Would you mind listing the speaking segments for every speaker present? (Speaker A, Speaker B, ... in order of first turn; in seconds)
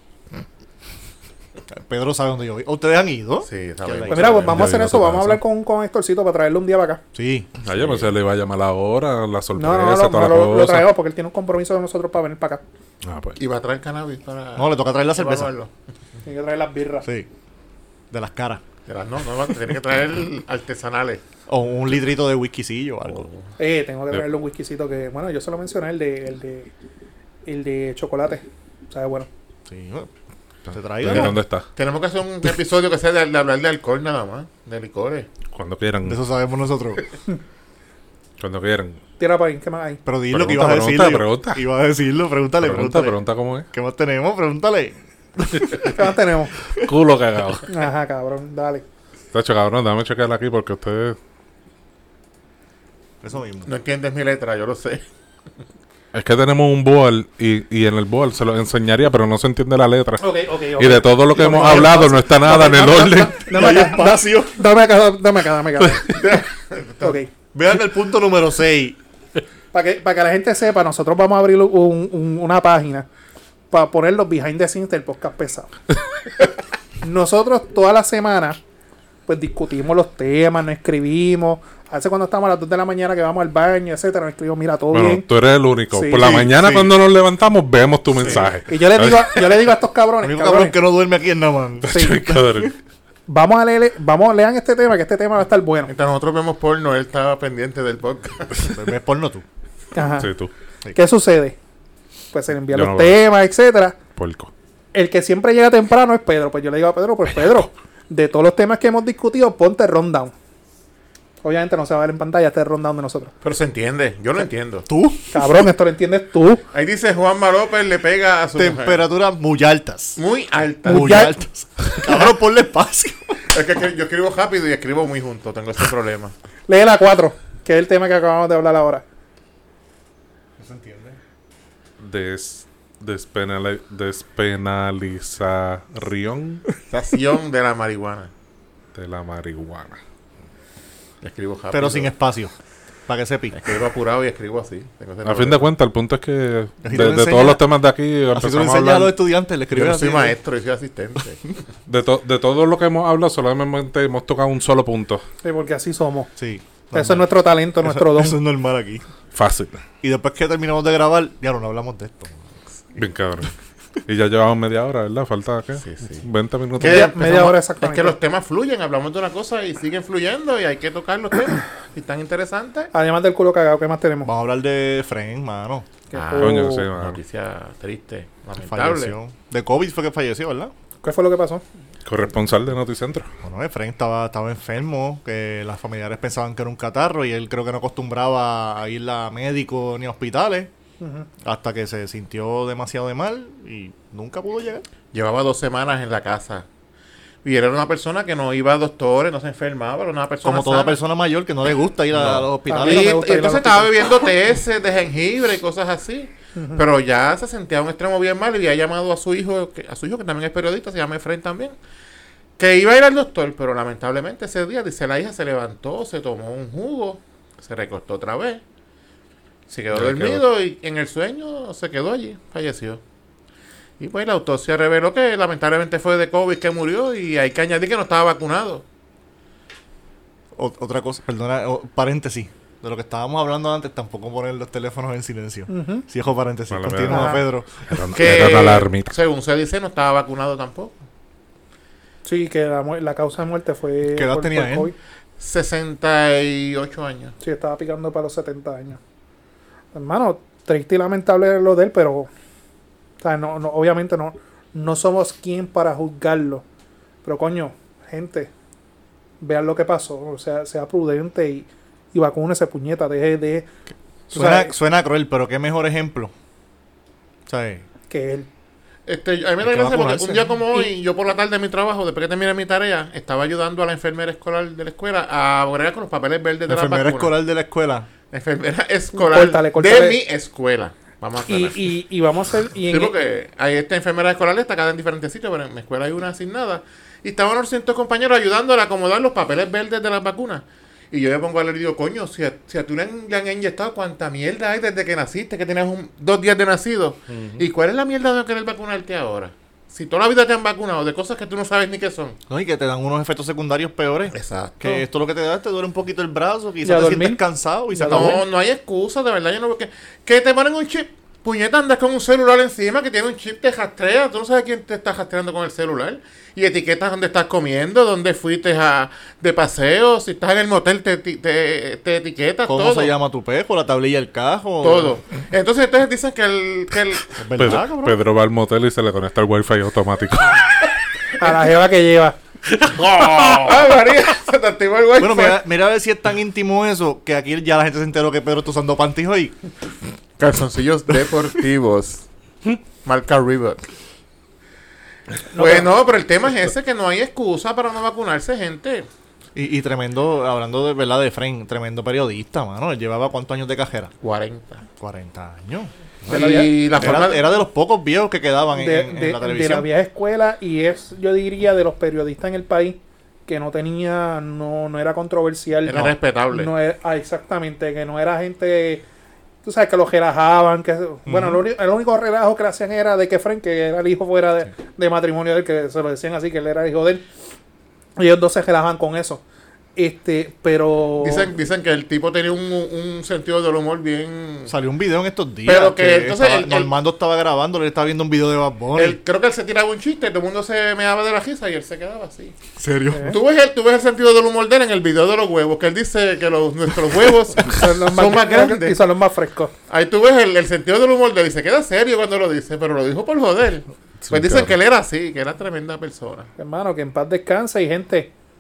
Speaker A: 1.7-4.5, 7.2-7.7, 14.6-15.5, 18.1-18.6, 21.5-23.3, 29.7-30.1, 30.7-31.4, 36.0-37.0, 40.1-46.0, 53.2-53.7, 61.6-64.6, 67.5-69.0, 86.2-86.9, 90.2-92.7, 98.6-99.5, 114.9-115.6, 118.6-120.2, 120.8-123.4, 130.6-131.2, 141.7-142.5, 143.1-143.6, 146.8-147.6, 148.3-150.4, 156.4-157.3, 157.8-159.1, 160.0-162.4, 174.2-175.9, 178.6-180.7, 183.4-190.7, 191.4-194.8, 200.4-203.2, 230.6-238.1, 244.1-244.9, 264.3-266.3, 267.5-267.9, 269.6-270.6, 276.7-278.1, 302.5-308.4, 322.7-325.2, 327.4-328.2, 335.2-339.6, 349.6-354.1, 355.0-359.9, 371.3-371.6, 384.7-389.2, 392.8-393.4
Speaker B: 3.5-4.7, 13.4-15.7, 18.9-21.2, 23.1-23.4, 31.8-35.3, 53.7-55.0, 66.1-67.2, 88.2-88.5, 95.9-98.7, 113.4-114.9, 116.7-119.0, 120.2-121.3, 123.5-126.3, 136.9-138.3, 141.2-142.1, 143.5-145.7, 149.7-151.6, 165.8-166.3, 166.8-172.9, 176.1-179.2, 195.1-196.7, 197.4-201.0, 202.7-211.8, 212.6-218.6, 219.7-223.0, 224.0-228.8, 238.1-241.0, 245.4-247.4, 269.1-277.3, 278.3-281.9, 282.9-302.4, 304.3-304.8, 308.1-323.1, 324.8-327.3, 332.9-335.6, 340.4-342.3, 343.0-343.8, 345.5-349.1, 354.2-354.8, 356.3-357.5, 365.9-366.7, 381.2-384.7, 385.6-386.9, 389.0-392.6, 393.3-399.0, 399.9-406.5
Speaker C: 4.1-7.0, 9.6-12.6, 16.2-17.1, 23.6-26.7, 27.5-29.3, 39.2-40.0, 45.9-46.5, 47.7-48.8, 60.2-66.2, 67.0-67.3, 69.7-73.1, 73.7-75.7, 77.0-78.6, 79.3-85.3, 85.9-86.5, 88.7-90.8, 91.9-92.3, 93.3-95.9, 99.9-100.3, 100.9-101.6, 102.3-104.0, 104.9-110.3, 111.4-113.3, 115.3-116.6, 120.9-121.4, 126.7-129.0, 155.4-156.3, 156.9-158.4, 166.8-168.2, 172.9-174.3, 176.1-176.9, 181.0-181.6, 191.0-191.3, 202.7-203.9, 206.6-206.8, 235.7-236.1, 237.1-237.4, 242.2-244.9, 247.4-249.0, 249.9-252.3, 253.2-256.6, 257.2-258.5, 259.4-263.7, 264.3-264.7, 268.1-268.5, 279.1-280.2, 281.5-283.1, 306.9-307.4, 307.9-308.4, 331.4-332.4, 345.5-345.9, 356.3-357.2, 358.8-369.0, 369.6-377.3, 378.2-379.4, 380.0-381.5, 393.1-393.4, 397.6-399.7, 406.6-408.3
Speaker D: 4.5-5.4, 7.6-10.9, 13.0-13.4, 30.7-31.7, 35.5-36.2, 38.4-39.0, 40.3-41.6, 42.6-43.7, 46.8-47.7, 49.3-51.2, 56.1-63.4, 65.8-66.1, 84.9-89.6, 91.8-92.8, 100.2-100.5, 102.7-103.2, 104.2-104.5, 132.0-136.6, 138.9-140.0, 145.2-149.1, 151.9-155.2, 159.3-159.8, 163.0-163.5, 164.1-167.5, 176.3-177.2, 182.1-183.3, 202.2-202.5, 219.9-220.4, 236.7-239.2, 297.3-297.6, 327.6-330.7, 332.8-333.7, 404.2-404.7